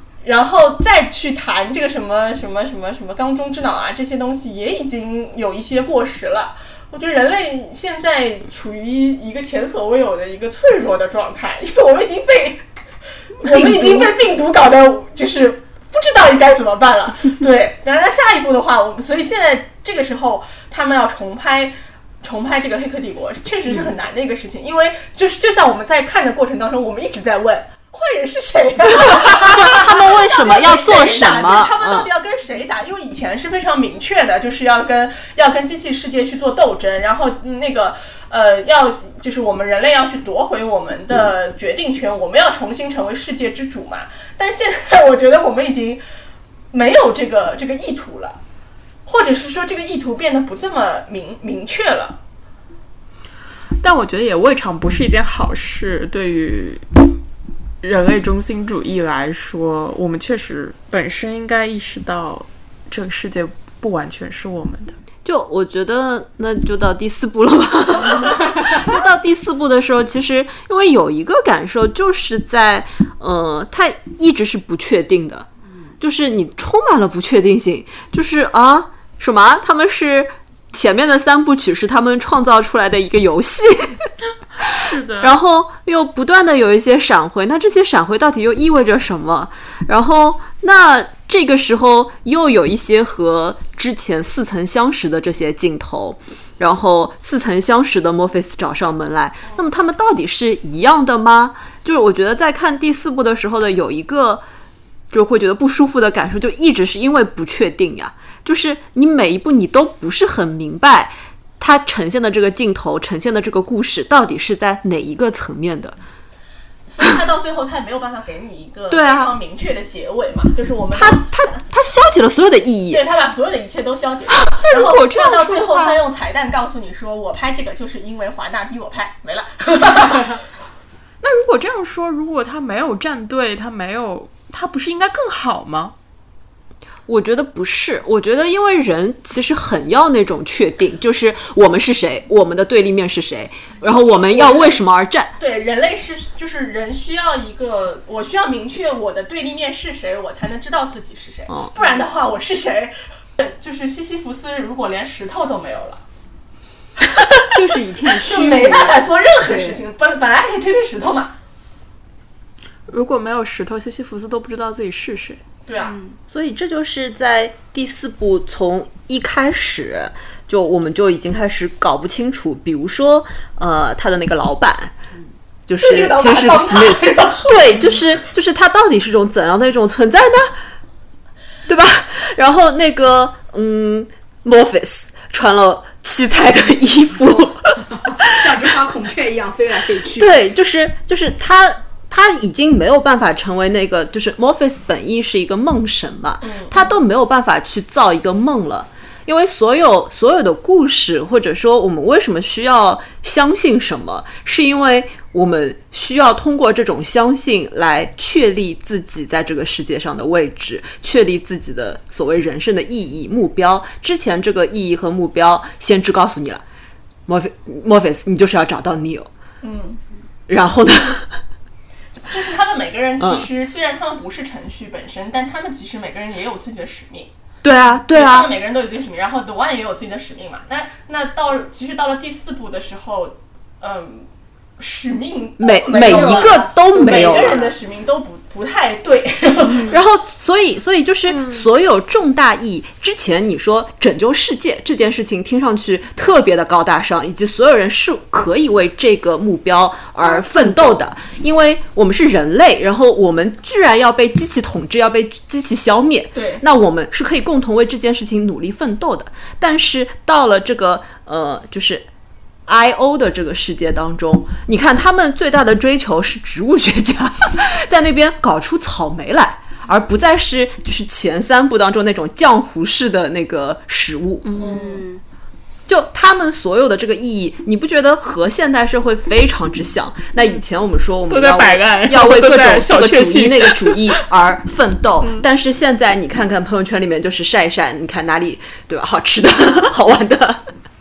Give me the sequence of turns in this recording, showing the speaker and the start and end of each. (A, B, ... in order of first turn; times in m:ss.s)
0:00.2-0:12.6 A
0:13.4-0:46.0 A
0:13.5-0:14.1 B
0:28.9-0:32.1 B
0:46.7-0:48.4 A
0:49.0-0:52.2 A
0:53.8-0:56.8 C
0:57.8-1:05.0 C
1:05.2-1:15.5 B
1:16.0-1:24.1 B
1:24.6-1:25.4 C
1:24.6-1:44.4 B
1:45.1-1:56.0 B
1:56.9-2:01.6 A
1:58.9-1:59.3 B
2:00.9-2:03.0 B
2:02.9-2:10.4 A
2:04.6-2:06.0 C
2:11.2-2:15.9 C
2:17.1-2:25.3 B
2:24.3-2:24.6 A
2:25.4-2:36.0 A
2:37.0-2:37.5 A
2:37.5-2:39.8 D
2:38.1-2:41.3 A
2:42.9-2:45.4 C
2:45.6-2:46.0 A
2:45.8-2:46.2 D
2:46.3-2:54.9 B
2:55.7-3:00.6 B
2:55.8-2:58.0 A
3:01.7-3:08.0 B
3:08.0-3:10.4 D
3:10.2-3:36.6 B
3:16.4-3:16.8 A
3:37.2-3:39.3 B
3:39.6-3:40.0 A
3:40.5-3:41.4 B
3:42.3-3:47.3 A
3:43.2-3:43.5 B
3:47.6-3:48.5 B
3:48.1-3:54.3 A
3:54.8-4:00.0 A
3:55.6-3:57.7 B
3:55.9-3:57.7 D
3:59.8-4:22.1 B
4:01.3-4:01.6 C
4:10.2-4:11.0 D
4:16.3-4:16.6 A
4:22.6-4:34.6 B
4:34.4-4:34.9 C
4:34.6-4:35.2 D
4:34.6-4:35.0 A
4:35.9-4:50.6 B
4:41.3-4:44.2 C